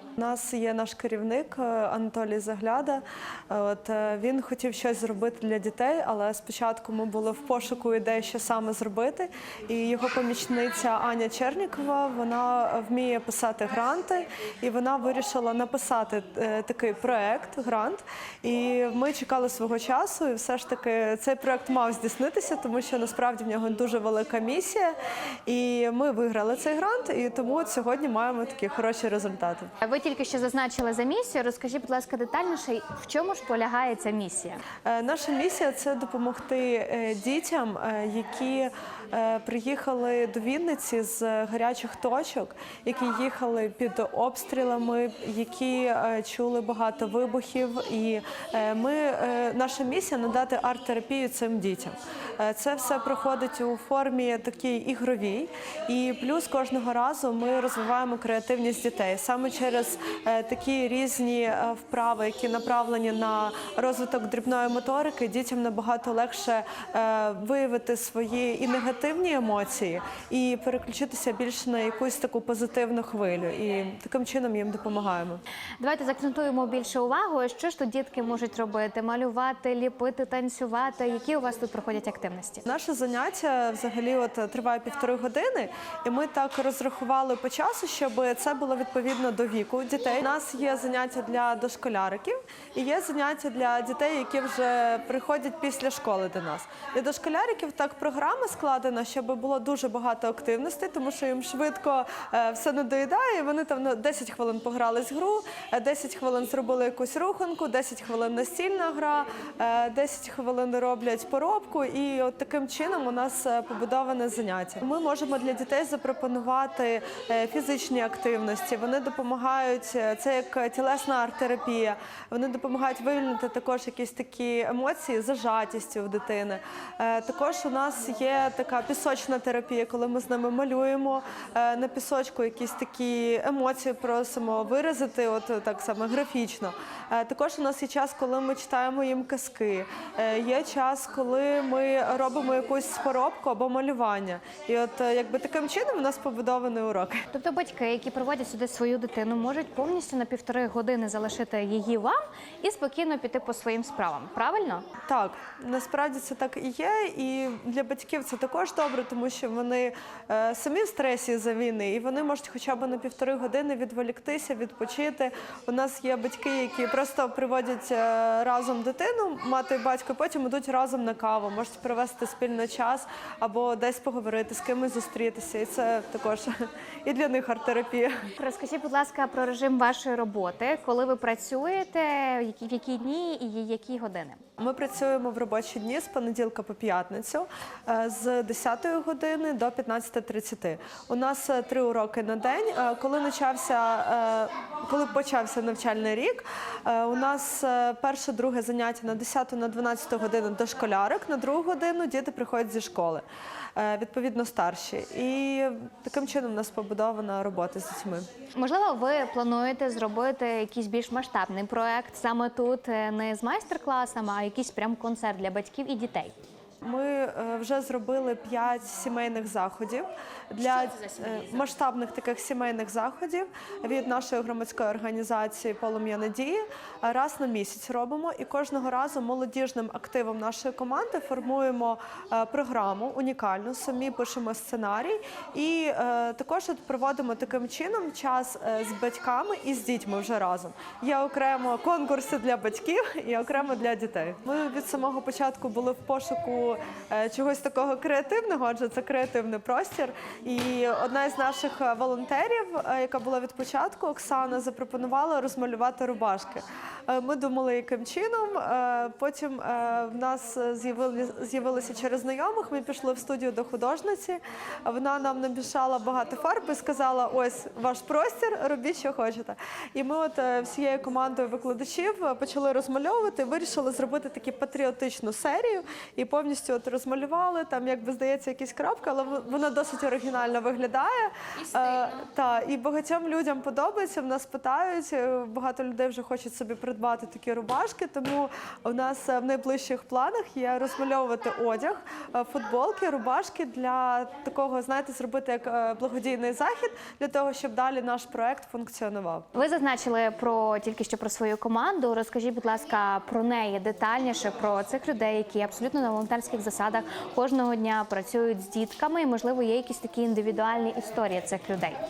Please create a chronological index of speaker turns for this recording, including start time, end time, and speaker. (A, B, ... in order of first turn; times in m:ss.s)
0:00.2-0:25.0 A
0:25.5-0:29.7 A
0:29.8-0:34.6 B
0:34.8-1:15.4 A
1:15.8-1:22.6 B
1:22.7-2:27.3 A
2:27.3-2:34.8 B
2:35.1-2:58.2 A
2:58.4-3:04.4 B
3:04.6-3:23.2 A
3:23.8-3:28.3 A
3:28.6-3:36.4 B
3:36.8-4:59.5 A
3:41.0-3:41.3 B
4:59.5-5:12.0 B